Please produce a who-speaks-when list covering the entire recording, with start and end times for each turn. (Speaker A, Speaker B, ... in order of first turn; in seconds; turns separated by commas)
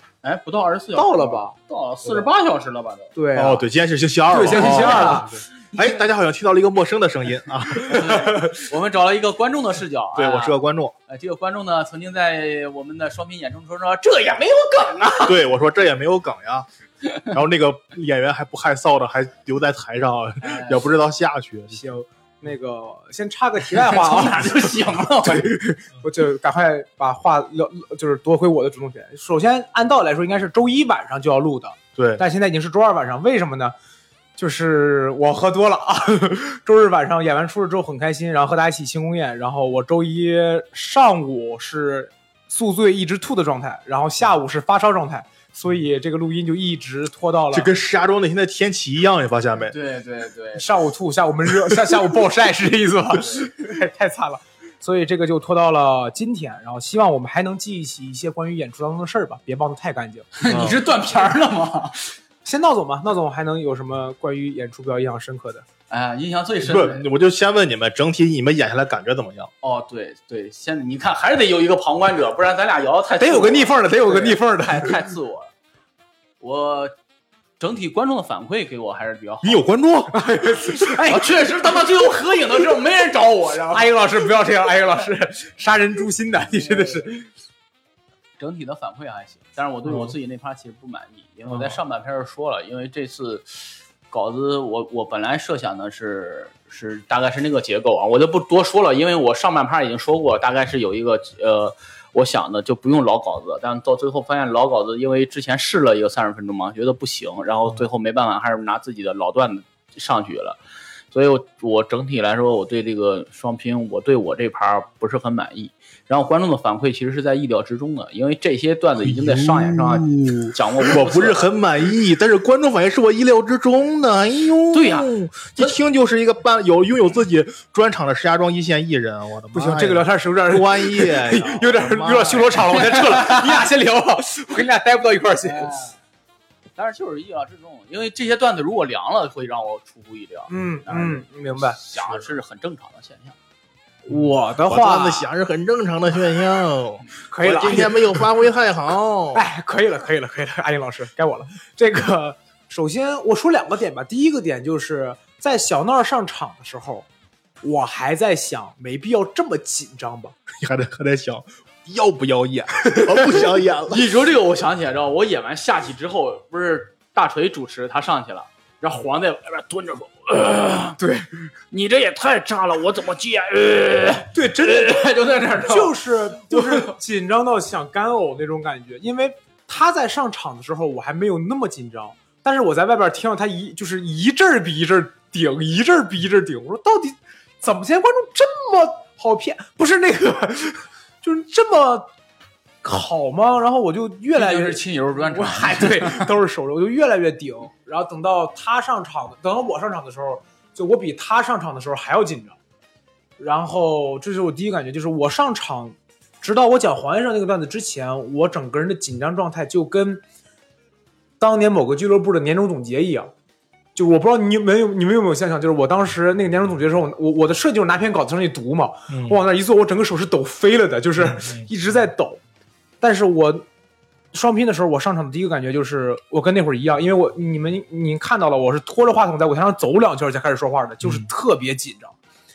Speaker A: 0.2-3.1, Speaker B: 0.9-1.5, Speaker B: 3.1-3.6, Speaker C: 3.3-8.4, Speaker B: 4.3-5.3, Speaker A: 4.5-5.3, Speaker A: 7.9-15.4, Speaker B: 8.1-8.5, Speaker C: 10.2-10.9, Speaker C: 15.2-16.7, Speaker C: 17.2-21.8, Speaker A: 20.4-20.9, Speaker B: 21.7-33.7, Speaker A: 23.7-25.5, Speaker C: 32.0-32.2, Speaker B: 34.4-47.7, Speaker C: 47.5-49.7, Speaker A: 49.7-50.7, Speaker B: 50.5-60.8, Speaker A: 60.4-62.1, Speaker C: 60.5-60.8, Speaker B: 62.4-65.7, Speaker A: 65.9-67.1, Speaker C: 66.6-69.5, Speaker A: 69.6-75.5, Speaker B: 73.2-75.1, Speaker A: 76.4-76.9, Speaker A: 77.6-79.6, Speaker C: 79.4-80.2, Speaker B: 80.1-81.8, Speaker A: 81.0-83.9, Speaker B: 83.7-87.3, Speaker A: 86.6-87.0, Speaker A: 88.4-110.6, Speaker A: 111.1-121.5, Speaker C: 119.0-132.7, Speaker A: 124.7-125.8, Speaker B: 129.5-135.9, Speaker A: 135.4-135.9, Speaker A: 136.8-143.4, Speaker B: 140.5-141.8, Speaker B: 144.0-145.3, Speaker C: 144.6-149.4, Speaker B: 147.3-148.3, Speaker B: 149.3-157.1, Speaker B: 157.6-160.3, Speaker C: 160.6-164.1, Speaker B: 163.1-163.5, Speaker A: 163.8-171.0, Speaker B: 171.0-171.5, Speaker A: 171.7-176.9, Speaker B: 174.3-192.1, Speaker B: 192.8-202.6, Speaker A: 194.3-196.3, Speaker B: 203.4-210.2, Speaker B: 211.4-213.3, Speaker B: 213.9-222.4, Speaker C: 219.1-219.4, Speaker C: 221.3-221.6, Speaker B: 223.0-223.7, Speaker B: 224.3-232.2